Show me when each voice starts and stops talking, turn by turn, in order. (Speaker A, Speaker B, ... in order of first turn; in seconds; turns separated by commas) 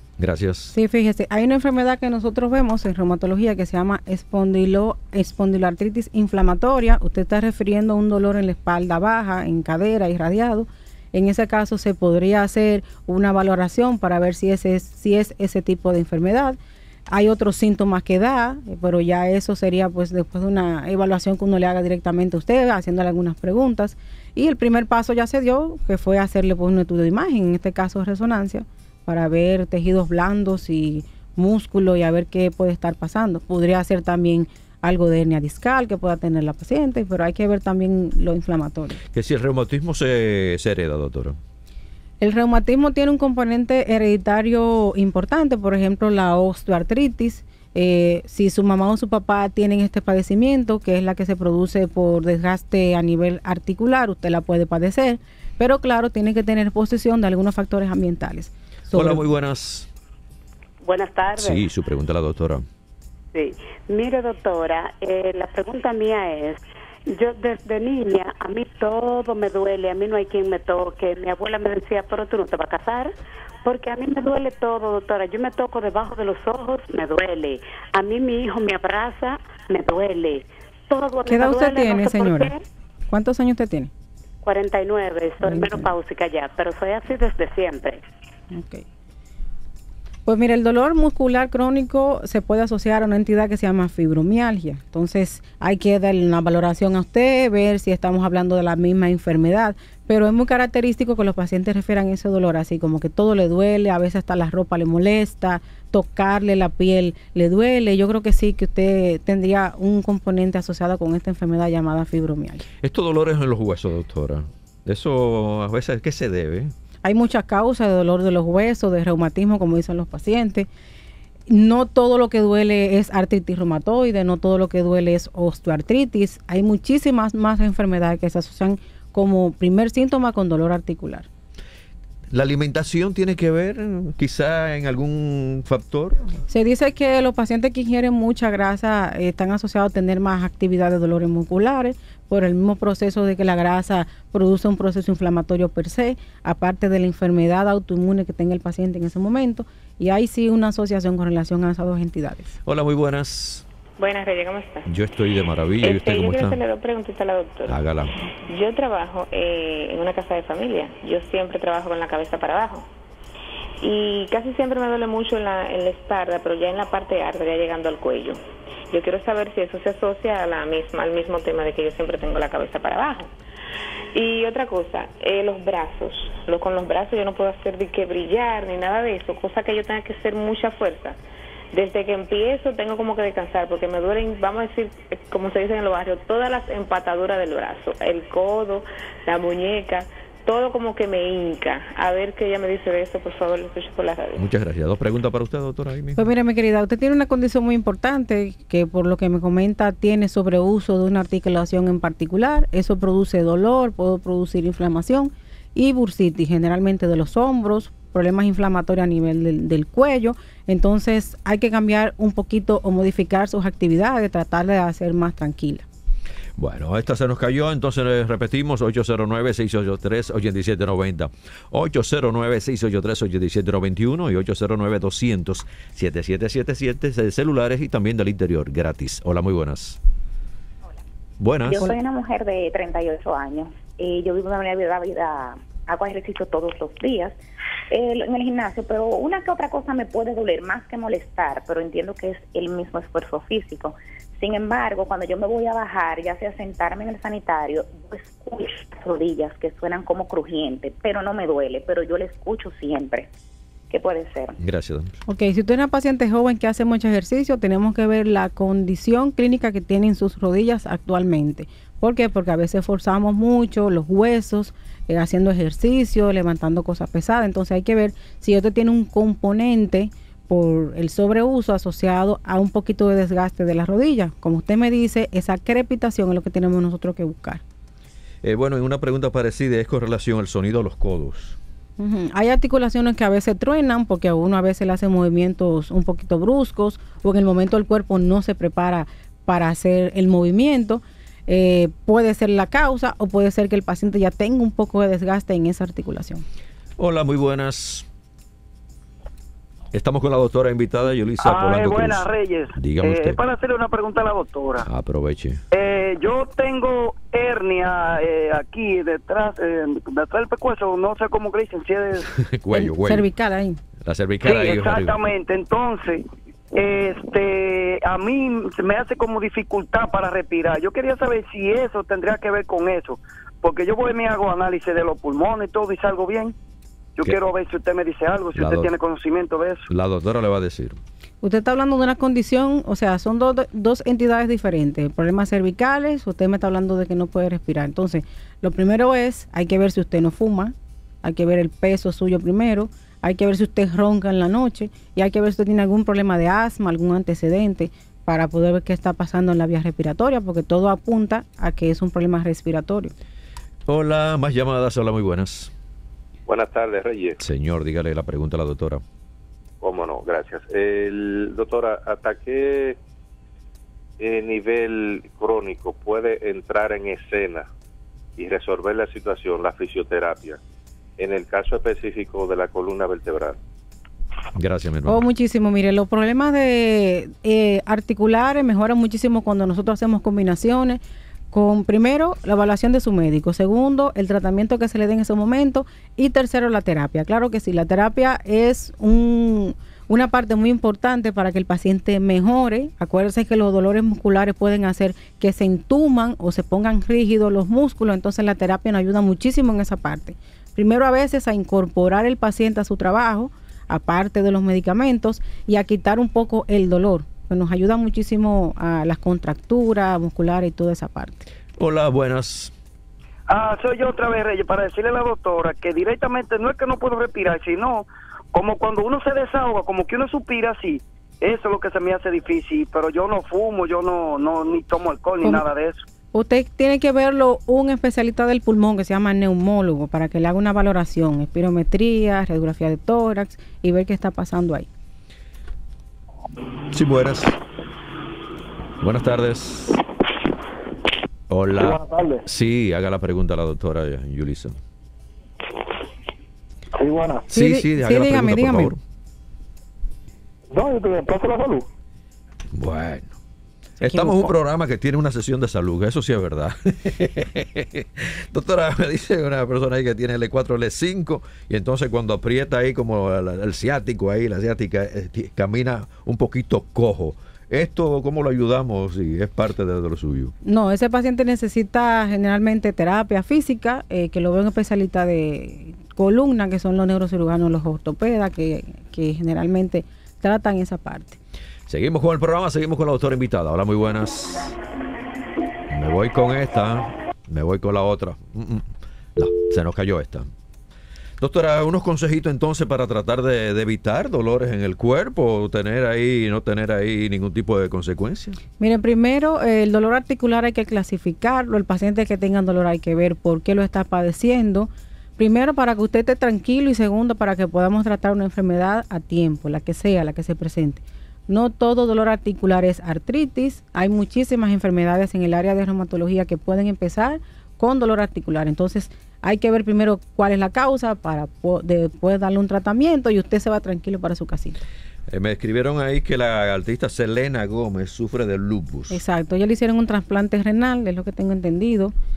Speaker A: 0.2-0.7, Speaker B: 0.7-16.6, Speaker B: 17.1-39.0, Speaker A: 39.1-41.4, Speaker B: 42.2-59.2, Speaker A: 58.9-59.9, Speaker C: 60.8-61.6, Speaker A: 61.4-62.7, Speaker C: 63.3-73.1, Speaker C: 73.7-82.6, Speaker B: 81.3-82.5, Speaker B: 83.1-83.9, Speaker C: 84.4-88.0, Speaker B: 85.4-85.9, Speaker B: 88.5-88.8, Speaker B: 90.3-112.7, Speaker A: 112.8-116.7, Speaker B: 117.0-120.7, Speaker B: 121.5-131.3, Speaker A: 132.3-136.3, Speaker B: 136.5-152.5, Speaker A: 152.7-153.7, Speaker D: 154.0-154.9, Speaker A: 154.9-156.6, Speaker D: 155.8-157.8, Speaker A: 157.7-158.2, Speaker D: 158.5-162.9, Speaker D: 163.8-173.3, Speaker D: 174.1-181.2, Speaker D: 181.7-194.4, Speaker A: 194.4-196.3, Speaker B: 196.2-215.8, Speaker A: 216.6-230.0, Speaker A: 231.4-231.9, Speaker E: 231.7-237.4, Speaker E: 237.9-253.3, Speaker E: 253.9-254.6, Speaker A: 254.6-255.2, Speaker B: 255.3-277.6, Speaker A: 278.4-281.6, Speaker B: 282.0-296.4, Speaker A: 297.0-298.1, Speaker A: 299.9-303.4, Speaker F: 301.4-304.9, Speaker A: 304.8-305.6, Speaker F: 305.7-312.3, Speaker A: 312.3-313.3, Speaker B: 312.7-313.8, Speaker A: 314.0-315.2, Speaker F: 314.4-326.6, Speaker F: 327.2-329.9, Speaker A: 328.5-328.9, Speaker A: 329.9-331.0, Speaker B: 331.4-353.1, Speaker A: 353.9-355.7, Speaker G: 356.5-357.4, Speaker A: 357.4-359.0, Speaker G: 359.8-363.0, Speaker G: 364.2-367.7, Speaker G: 368.4-370.6, Speaker G: 371.2-373.6, Speaker A: 374.6-375.2, Speaker B: 375.1-381.0, Speaker B: 381.5-411.5, Speaker A: 411.8-412.7, Speaker F: 413.5-426.0, Speaker B: 426.3-434.9, Speaker A: 436.9-437.6, Speaker A: 439.0-440.0, Speaker A: 441.5-444.8, Speaker H: 441.8-442.4, Speaker H: 446.9-447.5, Speaker B: 447.5-449.0, Speaker A: 447.5-449.0, Speaker H: 450.7-451.9, Speaker A: 452.7-453.4, Speaker A: 454.0-470.5, Speaker B: 454.1-454.5, Speaker B: 470.6-481.4, Speaker A: 481.9-484.8, Speaker A: 485.9-490.5, Speaker A: 491.4-498.6, Speaker B: 498.8-524.8, Speaker A: 525.3-529.2, Speaker B: 529.1-532.1